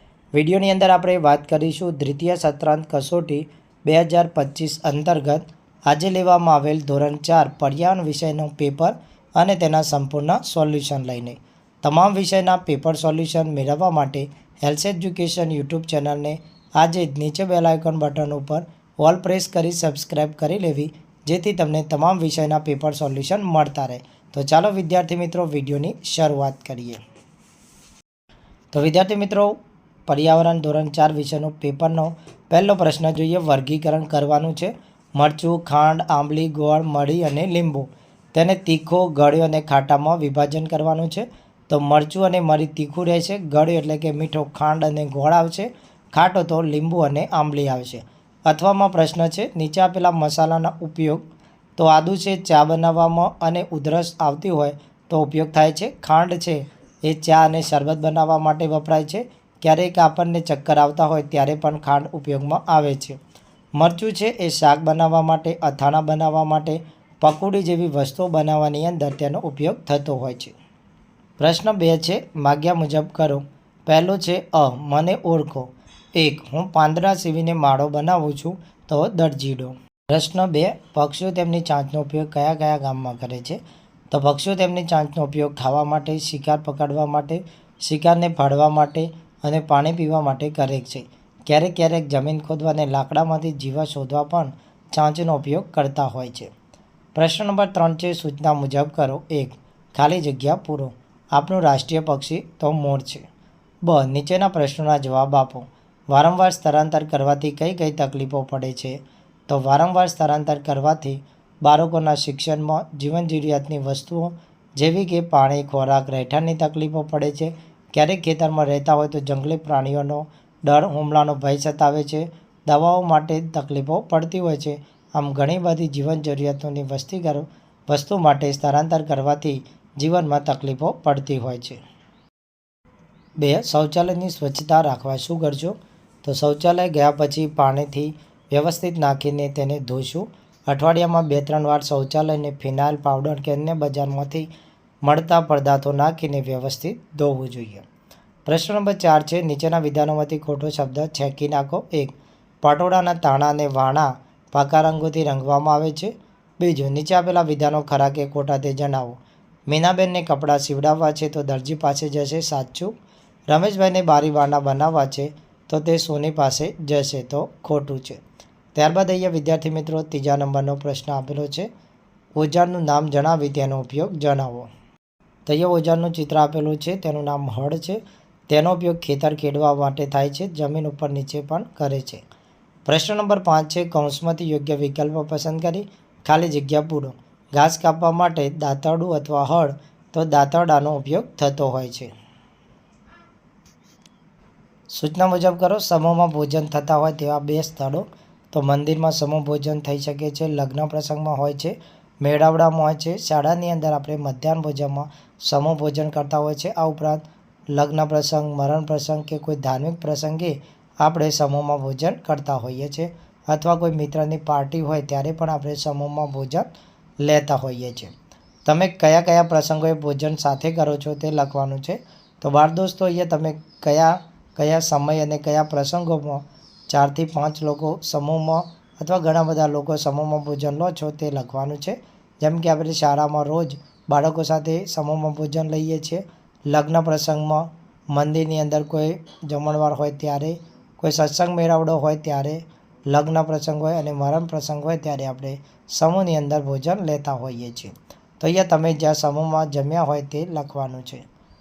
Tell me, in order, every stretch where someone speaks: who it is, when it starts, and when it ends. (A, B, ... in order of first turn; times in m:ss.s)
0:00.3-0:27.0 A
0:28.7-0:29.5 A
0:30.1-0:51.2 A
0:51.8-1:03.2 A
1:03.8-1:10.5 A
1:11.4-1:23.6 A
1:24.1-1:36.5 A
1:37.1-1:43.2 A
1:43.8-2:11.8 A
2:13.4-2:24.5 A
2:25.0-2:27.8 A
2:28.4-2:42.9 A
2:43.5-2:48.2 A
2:48.7-2:51.7 A
2:52.4-2:54.7 A
2:55.4-3:02.2 A
3:02.8-3:12.1 A
3:14.9-3:36.7 A
3:37.2-3:38.1 A
3:38.6-4:11.2 A